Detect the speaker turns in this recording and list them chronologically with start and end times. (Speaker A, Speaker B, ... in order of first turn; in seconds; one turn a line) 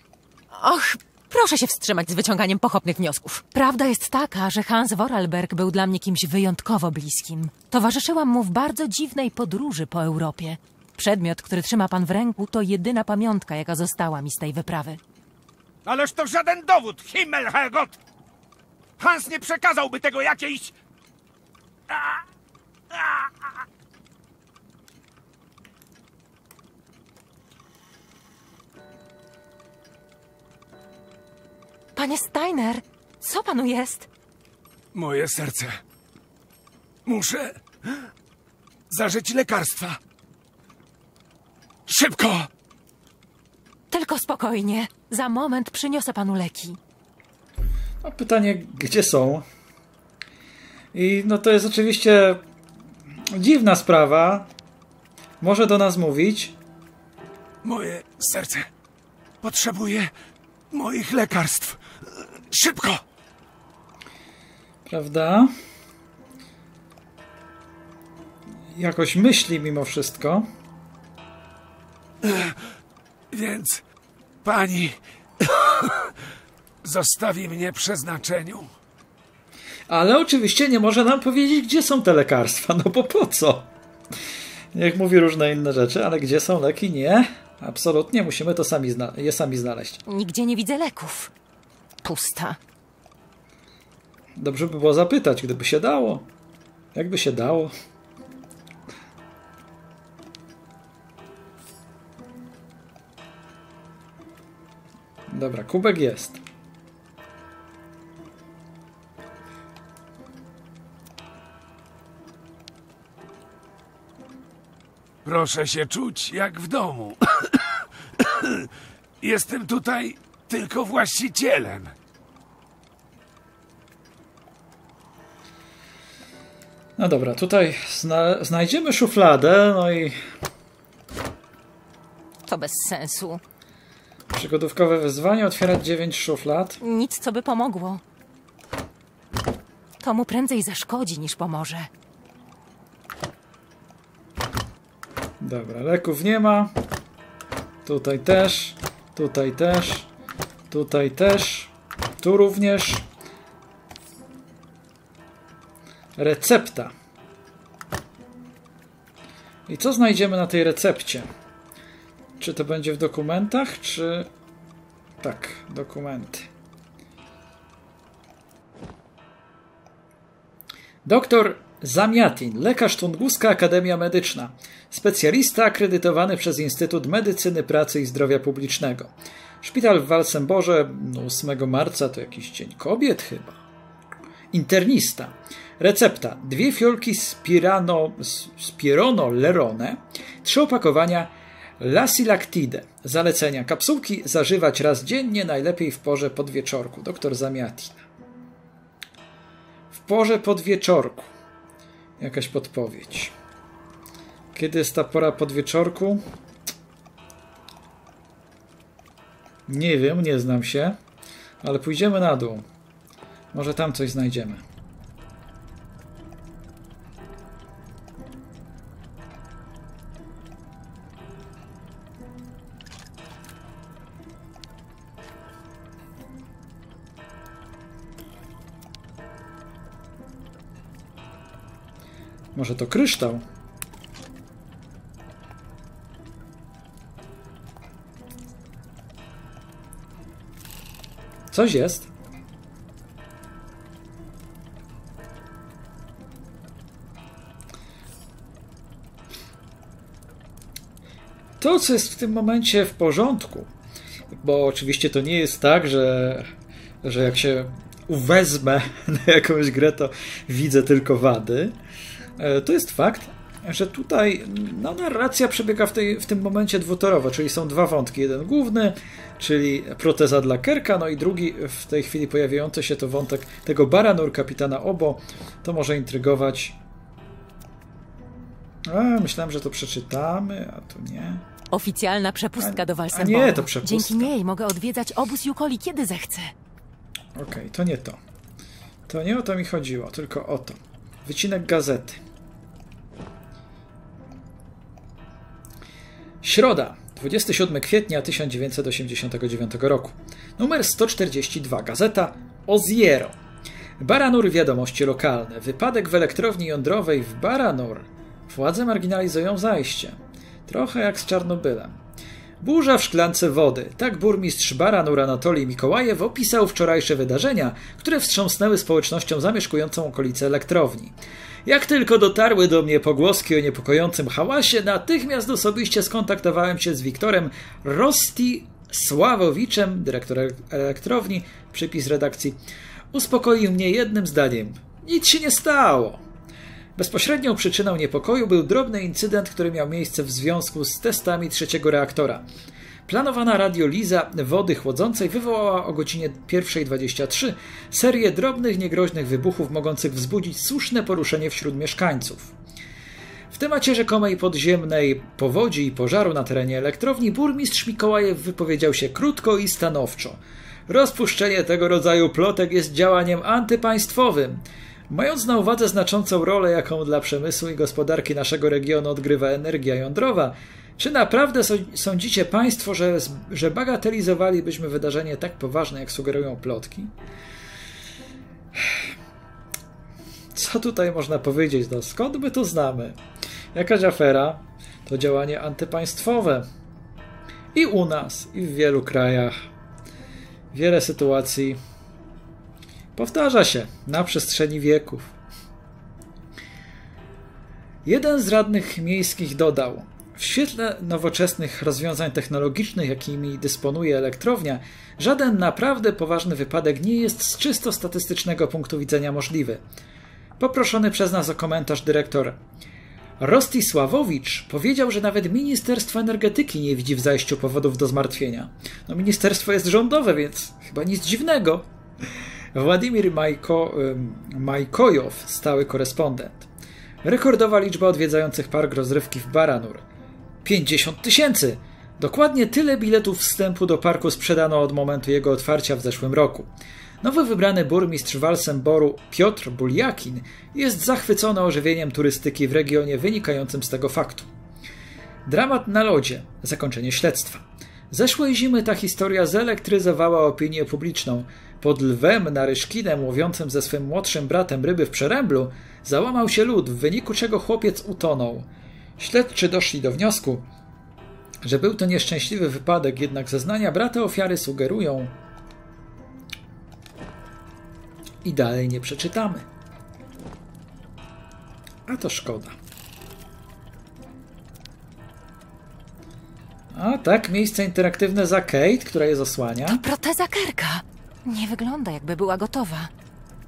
Speaker A: 0.5-15.0
Speaker B: 15.9-18.0
Speaker B: 19.0-20.7
Speaker B: 21.9-22.2
Speaker B: 22.9-23.3
Speaker A: 32.0-34.1
Speaker B: 34.9-35.8
Speaker B: 37.1-37.6
Speaker B: 38.9-40.0
Speaker B: 41.9-42.5
Speaker A: 43.9-46.8
Speaker C: 48.0-49.5
Speaker C: 50.9-52.4
Speaker C: 53.3-54.5
Speaker C: 55.4-56.6
Speaker B: 57.6-58.7
Speaker B: 59.4-60.1
Speaker B: 60.7-61.8
Speaker B: 62.5-63.0
Speaker C: 64.9-65.5
Speaker C: 68.7-70.5
Speaker B: 72.2-72.5
Speaker B: 73.3-73.8
Speaker B: 74.4-76.1
Speaker B: 76.8-78.7
Speaker C: 79.9-83.7
Speaker C: 84.7-90.0
Speaker A: 90.1-91.3
Speaker A: 92.0-92.6
Speaker C: 94.4-96.3
Speaker C: 96.9-97.7
Speaker C: 105.3-106.4
Speaker B: 115.2-117.7
Speaker B: 118.2-118.7
Speaker B: 119.2-121.9
Speaker C: 127.0-130.2
Speaker A: 132.5-133.4
Speaker C: 134.3-136.8
Speaker A: 136.8-138.0
Speaker A: 140.0-141.9
Speaker C: 145.4-146.7
Speaker C: 147.8-150.1
Speaker C: 150.7-153.1
Speaker C: 156.2-156.9
Speaker C: 159.7-161.3
Speaker C: 162.4-164.3
Speaker C: 165.2-166.5
Speaker C: 171.1-183.6
Speaker C: 184.5-198.0
Speaker C: 199.9-201.3
Speaker C: 202.2-203.3
Speaker C: 204.5-206.2
Speaker C: 209.7-211.0
Speaker C: 211.6-212.7
Speaker C: 213.5-214.6
Speaker C: 232.5-233.4
Speaker C: 241.5-242.1
Speaker C: 251.6-253.7
Speaker C: 254.4-256.5
Speaker C: 257.0-261.8
Speaker C: 262.4-276.8
Speaker C: 278.9-281.4
Speaker A: 281.7-286.5
Speaker C: 282.6-284.3
Speaker C: 287.4-288.2
Speaker C: 289.1-292.2
Speaker C: 296.4-303.4
Speaker C: 304.0-312.0
Speaker C: 312.6-336.2
Speaker C: 337.0-342.4
Speaker C: 343.1-352.6
Speaker C: 353.5-377.1
Speaker C: 378.8-379.1
Speaker C: 380.5-383.2
Speaker C: 383.7-386.7
Speaker C: 387.7-389.6
Speaker C: 390.7-391.8
Speaker C: 393.1-395.4
Speaker C: 398.1-409.8
Speaker C: 410.6-412.6
Speaker C: 413.4-421.9
Speaker C: 422.7-426.7
Speaker C: 427.2-430.1
Speaker C: 430.6-444.5
Speaker C: 445.4-460.7
Speaker C: 461.6-465.4
Speaker C: 468.4-469.7
Speaker C: 472.1-472.8
Speaker C: 476.9-480.0
Speaker A: 479.9-483.1